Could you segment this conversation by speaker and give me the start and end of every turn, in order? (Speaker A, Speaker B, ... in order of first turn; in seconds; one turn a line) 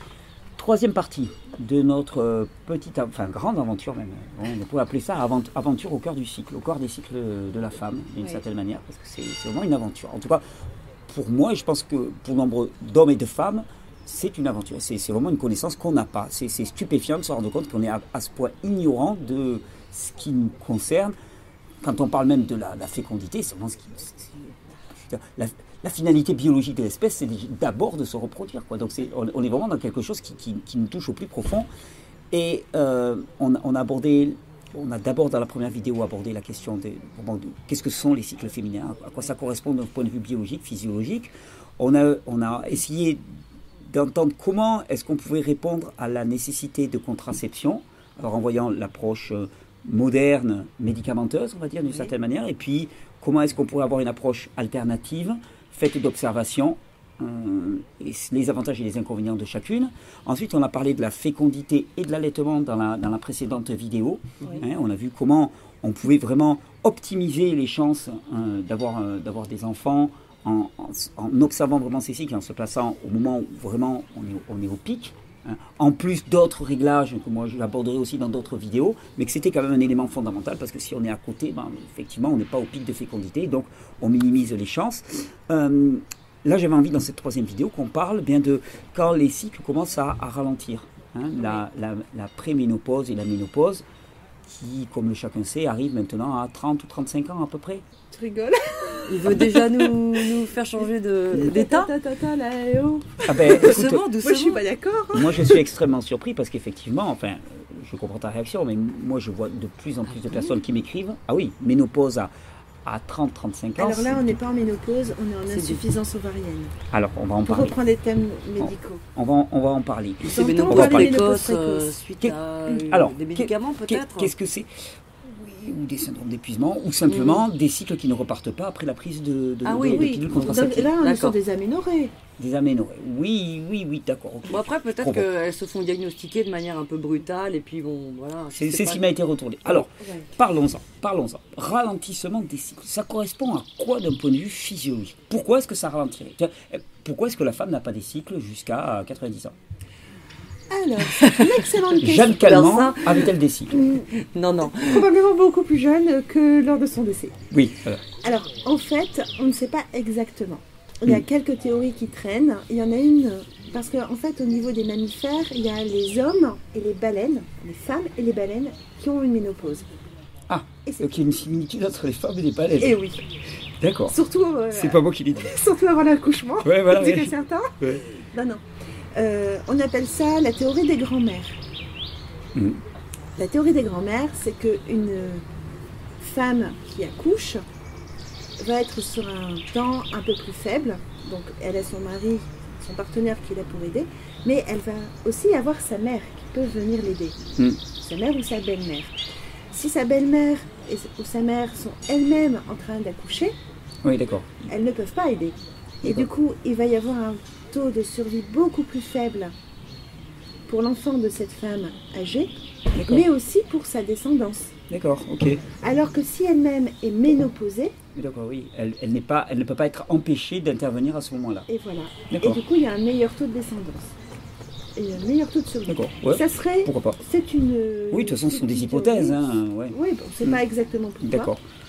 Speaker A: 0.6-10.4
Speaker A: 11.1-21.1
Speaker A: 21.8-31.7
Speaker A: 32.3-43.2
Speaker A: 43.9-93.8
Speaker A: 94.5-97.8
Speaker B: 98.1-100.4
Speaker C: 99.1-101.9
Speaker B: 101.3-105.6
Speaker A: 103.3-104.1
Speaker C: 103.4-104.7
Speaker A: 105.1-112.3
Speaker C: 110.1-110.5
Speaker A: 112.8-114.4
Speaker B: 113.8-116.8
Speaker C: 115.5-115.8
Speaker A: 116.9-117.8
Speaker B: 117.5-119.0
Speaker A: 118.6-121.2
Speaker C: 120.2-124.3
Speaker B: 120.2-121.9
Speaker A: 122.2-124.7
Speaker A: 125.2-130.9
Speaker C: 127.1-127.4
Speaker B: 129.6-132.1
Speaker C: 129.7-131.4
Speaker A: 132.4-135.3
Speaker C: 134.5-139.1
Speaker A: 138.5-149.6
Speaker B: 139.9-140.3
Speaker B: 150.7-152.7
Speaker C: 151.0-153.3
Speaker A: 152.0-153.9
Speaker B: 153.7-154.1
Speaker C: 154.0-155.1
Speaker B: 154.6-157.4
Speaker A: 157.5-158.0
Speaker B: 158.2-169.8
Speaker A: 170.5-173.0
Speaker B: 170.8-171.2
Speaker B: 172.8-173.2
Speaker A: 173.8-174.2
Speaker B: 174.1-178.6
Speaker A: 174.7-175.5
Speaker A: 176.6-178.0
Speaker B: 179.1-181.6
Speaker A: 182.5-182.8
Speaker B: 183.3-185.4
Speaker B: 186.2-187.6
Speaker B: 188.6-197.4
Speaker B: 197.9-199.2
Speaker B: 199.7-203.5
Speaker A: 204.0-204.6
Speaker B: 204.7-209.5
Speaker A: 206.0-206.3
Speaker B: 210.7-214.7
Speaker A: 212.9-213.2
Speaker A: 214.9-215.6
Speaker B: 215.8-217.9
Speaker A: 218.1-221.7
Speaker B: 221.7-224.1
Speaker A: 222.3-222.6
Speaker B: 224.9-231.5
Speaker A: 225.9-227.2
Speaker A: 228.1-230.6
Speaker A: 231.2-231.6